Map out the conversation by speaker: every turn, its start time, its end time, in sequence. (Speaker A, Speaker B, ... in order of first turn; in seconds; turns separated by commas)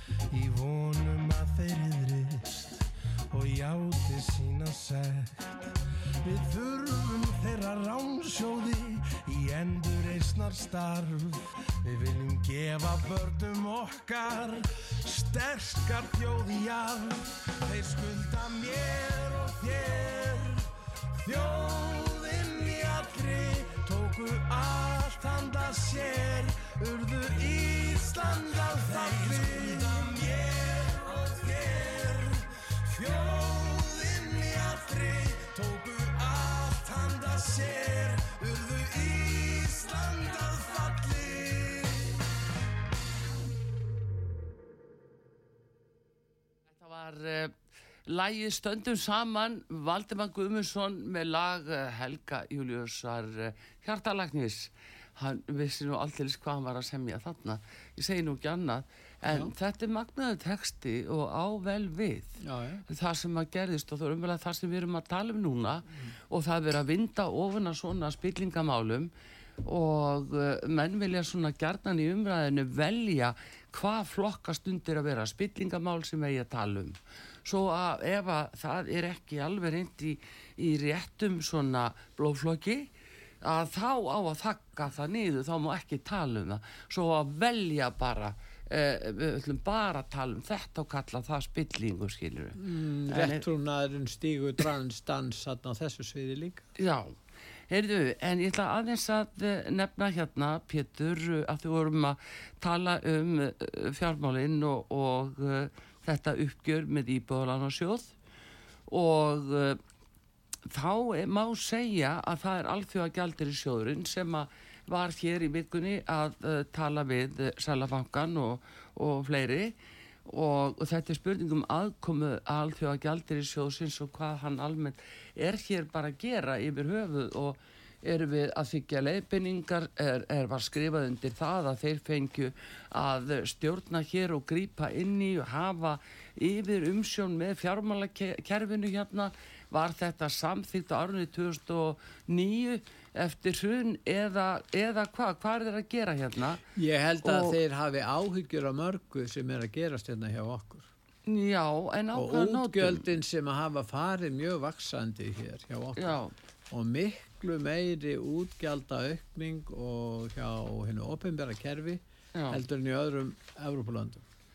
Speaker A: 0.3-42.2, Speaker B: 46.7-47.5, Speaker B: 48.0-69.1, Speaker C: 59.3-59.5, Speaker C: 62.4-62.8, Speaker B: 69.6-82.9, Speaker B: 83.4-92.6, Speaker C: 92.5-96.6, Speaker B: 93.1-93.4, Speaker B: 96.8-97.1, Speaker B: 97.7-108.1, Speaker B: 108.9-109.8, Speaker B: 110.7-119.7, Speaker B: 120.2-146.6, Speaker C: 146.7-150.9, Speaker B: 147.2-147.6, Speaker B: 151.3-153.0, Speaker C: 152.1-156.2, Speaker B: 156.0-156.3, Speaker C: 156.7-164.2, Speaker B: 162.3-162.6